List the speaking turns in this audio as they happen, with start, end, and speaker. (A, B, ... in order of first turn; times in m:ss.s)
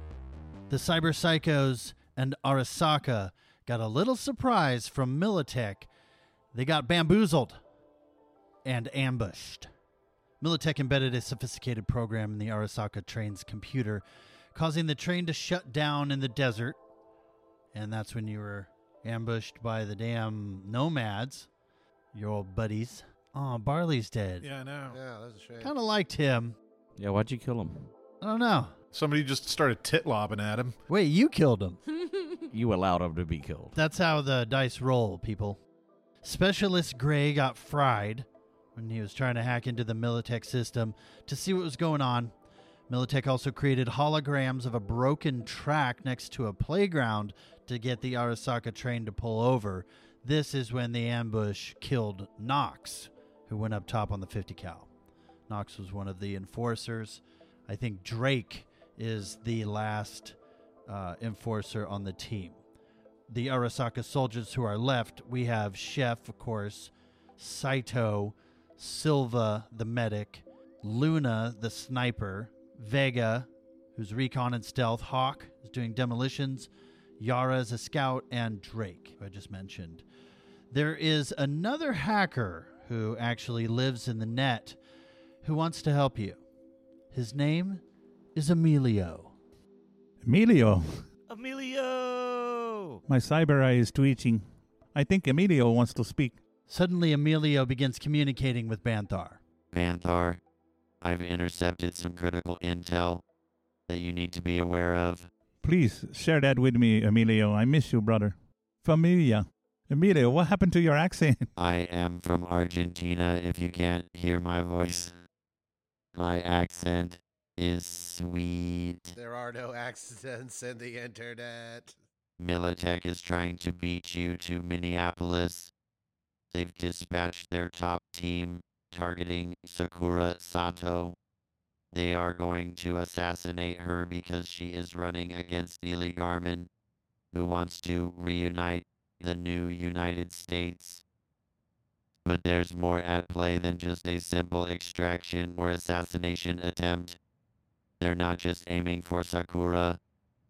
0:00.7-0:05.9 A
0:06.5-0:07.6 A
0:08.6-0:09.7 A
0:10.4-0:16.8 A
0:17.7-0:21.5 A
0:22.1-0:24.5 A
0:24.4-0:25.0 B
0:24.9-0:25.7 C
0:25.6-0:26.6 A
0:27.0-0:27.9 D
0:28.2-0:28.7 A
0:28.9-0:30.8 B
0:30.9-0:31.8 A
0:32.5-0:33.7 D
0:33.7-0:35.6 A
0:36.2-0:42.3 A
0:42.9-0:54.9 A
0:55.5-1:00.4 A
1:00.9-1:02.6 A
1:03.3-1:20.0 A
1:20.7-1:24.8 A
1:25.4-1:26.4 A
1:27.1-1:27.8 A
1:28.3-1:29.3 A
1:30.2-1:31.0 E
1:31.3-1:33.0 D
1:33.1-1:36.4 E
1:36.7-1:39.4 A
1:39.7-1:40.4 F
1:41.0-1:43.2 F
1:43.9-1:45.3 F
1:45.6-1:51.5 E
1:51.6-1:55.1 F
1:56.1-1:59.2 F
1:59.1-2:02.0 C
2:02.4-2:05.7 F
2:06.5-2:11.2 F
2:11.9-2:16.7 F
2:17.3-2:21.0 F
2:22.2-2:27.2 F
2:28.0-2:30.0 F